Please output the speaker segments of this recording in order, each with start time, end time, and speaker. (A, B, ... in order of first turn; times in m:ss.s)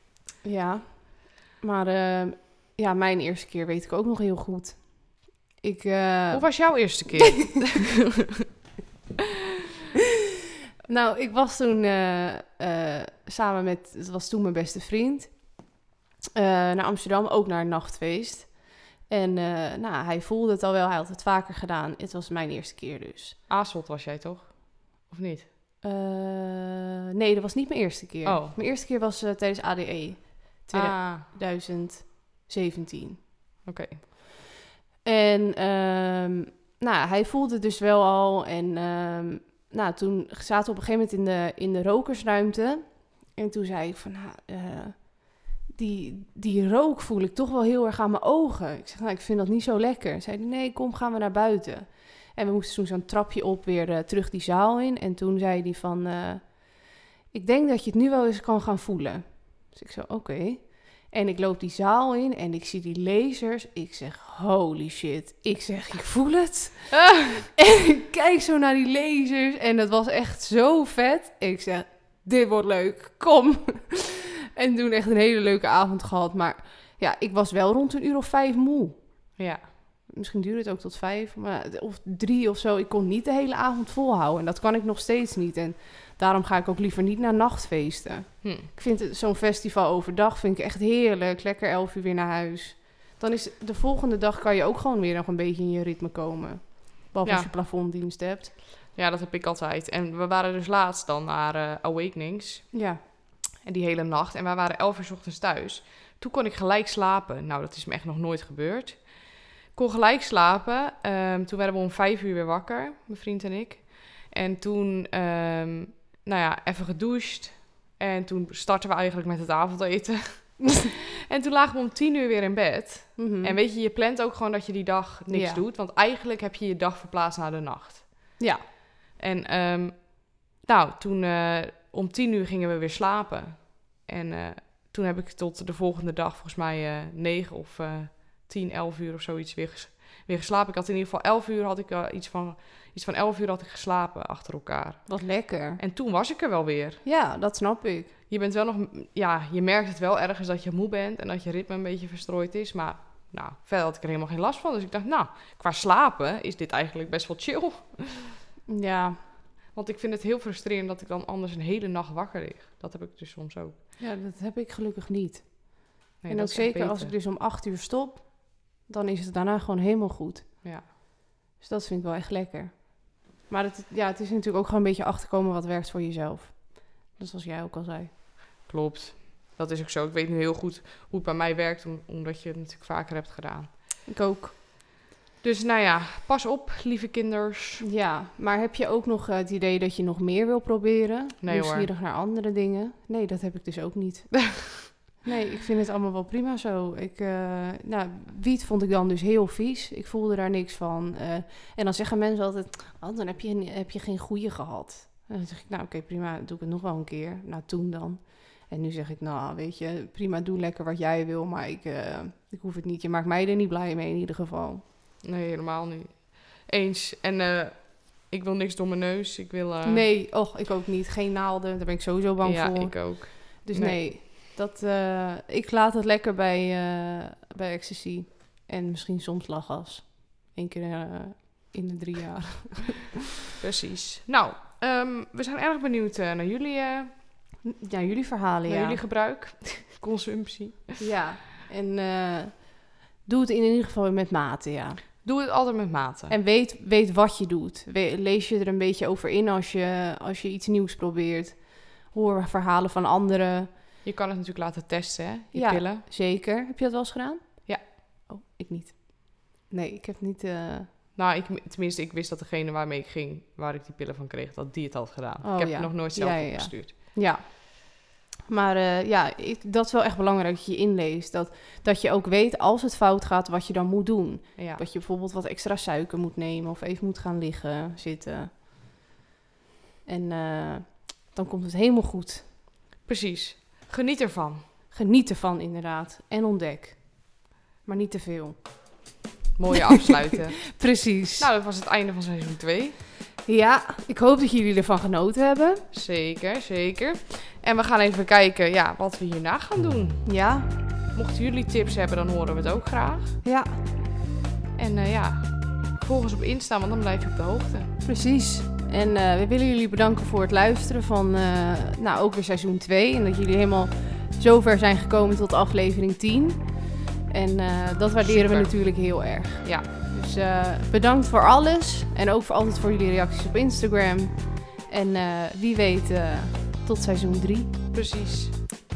0:00.4-0:07.5 A
0:06.3-0:08.1 B
0:10.9-0:15.6 A
0:16.4-0:23.4 A
0:23.5-0:25.5 B
0:25.8-0:33.2 A
0:28.2-0:28.6 B
0:30.7-0:31.3 B
0:33.6-0:34.0 B
0:35.0-1:19.0 A
1:06.9-1:07.4 B
1:19.4-1:19.7 B
1:20.1-1:38.5 A
1:28.4-1:28.7 B
1:37.2-1:37.5 B
1:38.9-1:42.7 B
1:42.7-1:43.0 A
1:43.6-2:08.4 B
2:03.2-2:03.6 A
2:05.3-2:05.6 A
2:08.4-2:08.6 A
2:09.2-2:25.1 B
2:25.1-2:25.8 A
2:25.8-2:27.0 B
2:27.0-2:28.1 A
2:28.3-2:38.3 B
2:38.7-2:39.2 A
2:39.8-2:43.8 B
2:44.0-2:50.5 A
2:46.2-2:47.1 B
2:51.6-2:58.1 A
2:58.6-3:03.7 B
3:04.1-3:04.5 A
3:05.4-3:07.8 B
3:07.8-3:34.8 A
3:11.4-3:11.9 B
3:35.2-3:40.1 B
3:39.8-3:53.2 A
3:42.4-3:44.0 B
3:53.6-3:57.2 B
3:57.6-3:59.0 A
3:58.7-4:01.0 B
4:01.0-4:05.0 A
4:05.2-4:06.4 B
4:06.3-4:13.7 A
4:14.0-4:16.0 B
4:15.5-4:20.9 A
4:21.2-4:26.9 B
4:25.4-4:28.0 A
4:28.5-4:38.5 A
4:34.6-4:34.8 B
4:40.1-4:42.5 A
4:43.0-4:44.6 B
4:44.9-4:48.6 A
4:49.6-4:50.8 B
4:50.6-4:51.5 A
4:51.4-4:53.0 B
4:53.5-4:55.8 A
4:55.9-5:00.2 B
5:00.2-5:00.7 A
5:01.1-5:03.4 B
5:03.4-5:03.8 A
5:04.8-5:07.9 B
5:08.0-5:16.6 A
5:17.3-5:27.7 A
5:18.2-5:18.7 B
5:19.6-5:19.9 B
5:27.9-5:28.7 B